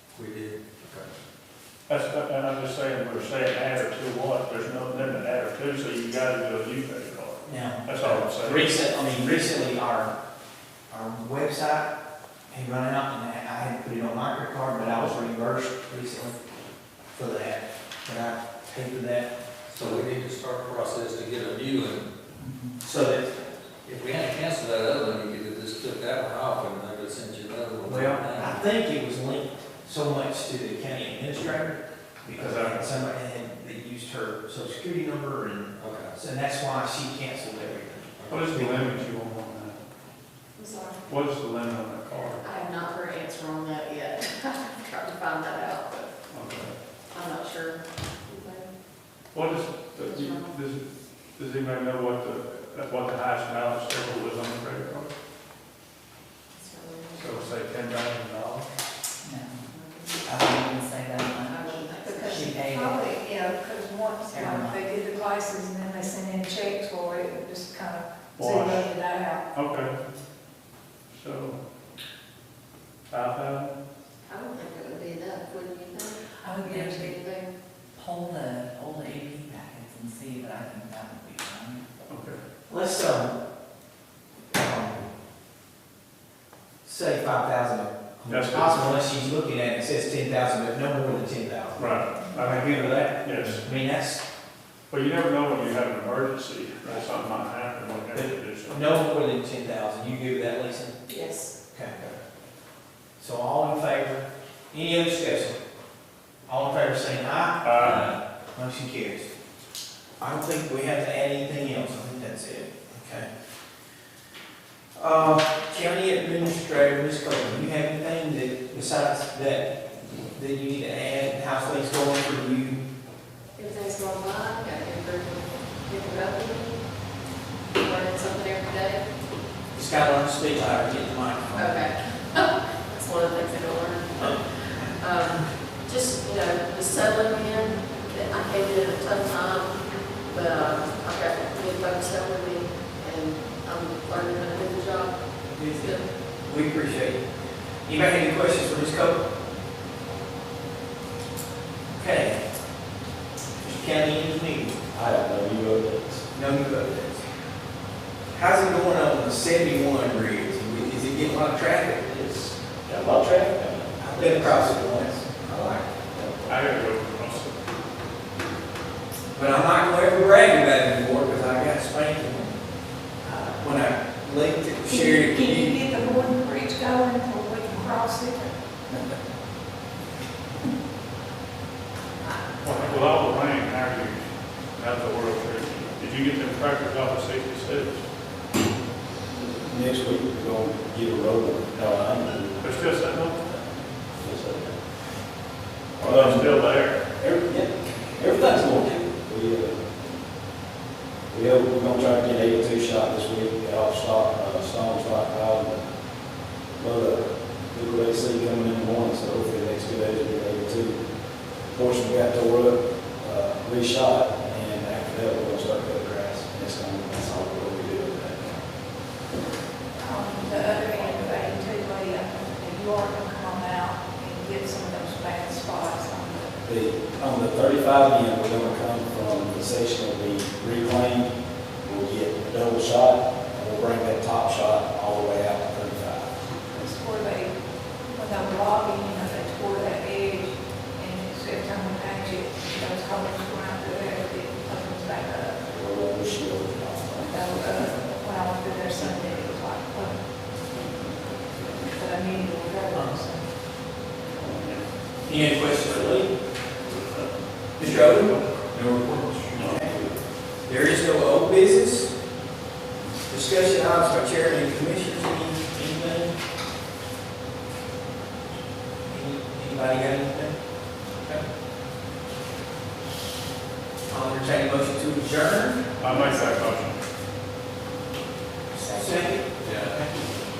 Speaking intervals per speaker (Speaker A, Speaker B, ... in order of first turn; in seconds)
Speaker A: 0.1-1.1, 19.7-22.1, 23.9-28.6, 35.8-36.1, 38.2-38.5
Speaker B: 1.9-8.7, 32.4-32.9, 38.3-39.8, 41.1-42.4, 46.3-46.8, 49.3-55.1, 57.2-58.7, 68.4-68.8, 69.5-70.0, 71.1-71.6, 73.1-73.8, 82.1-82.4, 88.3-89.0, 91.8-93.7, 94.9-98.8, 107.6-108.1, 166.5-167.7, 182.6-188.1, 192.6-193.5, 196.0-197.0, 249.2-249.6, 250.7-251.8, 254.3-254.9, 256.9-257.3, 257.8-259.9, 276.0-277.0
Speaker C: 7.5-10.1, 10.9-11.9, 12.5-16.4, 17.1-19.3, 22.8-23.4, 27.9-38.8, 82.7-83.3, 84.5-85.0, 86.8-94.2, 98.2-101.0, 101.7-102.2, 103.2-105.6, 106.5-109.3, 110.2-113.3, 115.0-119.7, 120.3-122.8, 129.7-131.8, 145.5-147.2, 147.9-149.2, 151.9-152.4, 153.6-154.8, 156.3-157.2, 158.3-162.5, 164.0-165.7, 169.3-172.5, 173.2-176.3, 252.9-253.2, 255.3-256.3, 257.8-258.3, 260.7-262.1, 263.3-266.4, 269.1-270.6, 274.1-276.6, 278.8-280.2
Speaker D: 22.4-22.8, 59.2-59.6, 60.3-63.1, 64.3-64.8, 76.5-77.0, 78.0-81.8, 182.7-183.1
Speaker E: 40.6-41.0, 42.4-46.1, 47.1-48.7, 50.0-50.5, 56.5-57.5, 59.7-60.4, 61.4-62.5, 74.3-77.5, 101.1-101.5, 123.6-126.8, 127.8-129.0, 131.6-139.7, 140.3-145.2, 145.7-146.0
Speaker F: 62.0-69.5, 76.5-77.2, 174.9-178.6, 220.0-226.6, 236.7-237.5, 238.1-246.4, 247.2-250.2, 251.8-253.5
Speaker G: 154.9-156.2, 162.8-166.6, 189.4-192.6, 193.5-194.8, 196.0-199.8, 201.3-205.8, 206.8-211.0, 211.7-218.6, 220.9-221.5, 226.6-236.4, 245.7-247.4, 259.6-260.0